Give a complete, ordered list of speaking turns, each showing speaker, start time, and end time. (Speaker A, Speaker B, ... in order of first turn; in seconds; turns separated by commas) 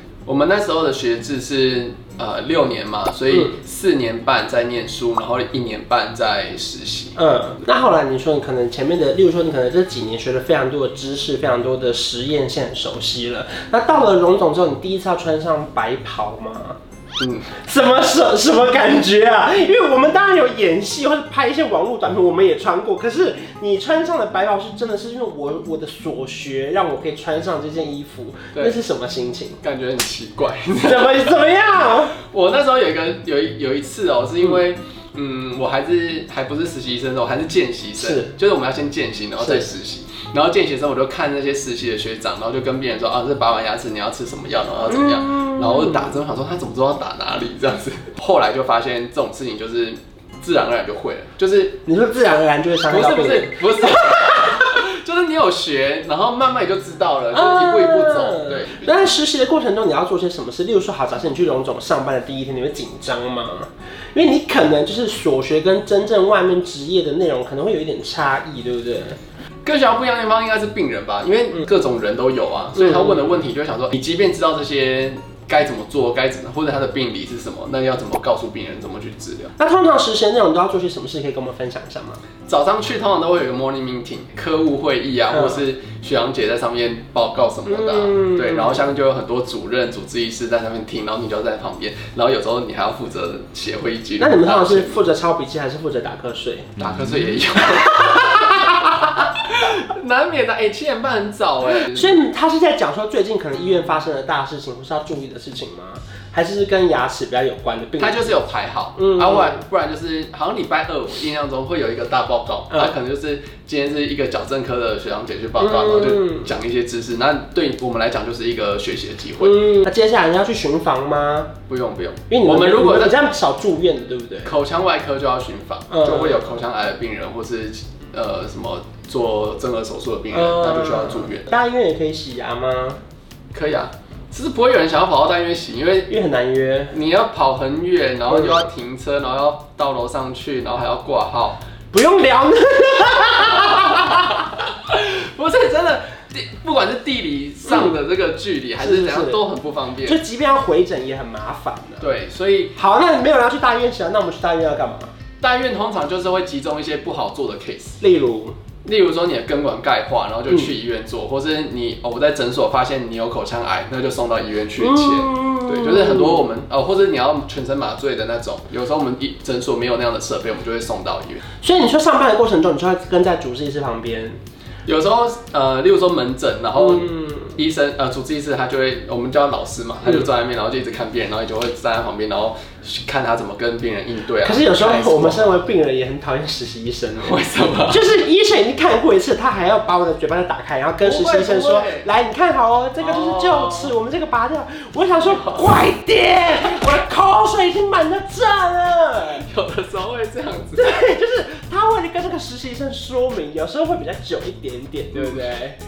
Speaker A: 0.2-7.2, Speaker B: 7.2-16.8, Speaker A: 17.2-17.6, Speaker B: 17.6-29.6, Speaker A: 29.6-31.5, Speaker B: 30.8-32.2, Speaker A: 32.2-51.8, Speaker B: 38.0-38.3, Speaker B: 39.4-39.7, Speaker B: 45.0-46.0, Speaker B: 51.9-54.1, Speaker A: 52.9-58.9, Speaker B: 57.3-69.2, Speaker A: 69.7-79.5, Speaker B: 79.6-82.2, Speaker A: 82.5-95.0, Speaker B: 85.3-85.6, Speaker B: 87.7-88.8, Speaker B: 94.2-96.7, Speaker A: 96.8-102.2, Speaker B: 101.9-108.4, Speaker A: 108.0-119.7, Speaker B: 109.0-109.6, Speaker B: 115.6-116.5, Speaker B: 119.4-121.5, Speaker A: 121.7-123.2, Speaker B: 122.3-124.5, Speaker A: 124.5-131.5, Speaker B: 125.9-126.4, Speaker B: 130.3-133.0, Speaker A: 133.5-136.1, Speaker B: 136.1-137.0, Speaker A: 136.9-141.6, Speaker B: 138.3-138.7, Speaker B: 141.9-144.4, Speaker A: 143.7-150.2, Speaker B: 147.7-147.9, Speaker B: 148.8-149.4, Speaker B: 150.1-152.1, Speaker A: 152.0-152.8, Speaker B: 152.8-155.1, Speaker A: 155.4-158.0, Speaker B: 158.0-158.6, Speaker A: 158.8-171.4, Speaker B: 164.9-166.5, Speaker B: 171.6-174.4, Speaker A: 174.9-185.6, Speaker B: 176.8-177.6, Speaker B: 184.4-187.4, Speaker A: 187.2-188.1, Speaker B: 187.9-199.4, Speaker A: 191.0-192.1, Speaker A: 193.0-193.9, Speaker A: 195.2-195.7, Speaker A: 199.4-201.1, Speaker B: 200.8-205.8, Speaker A: 205.1-205.5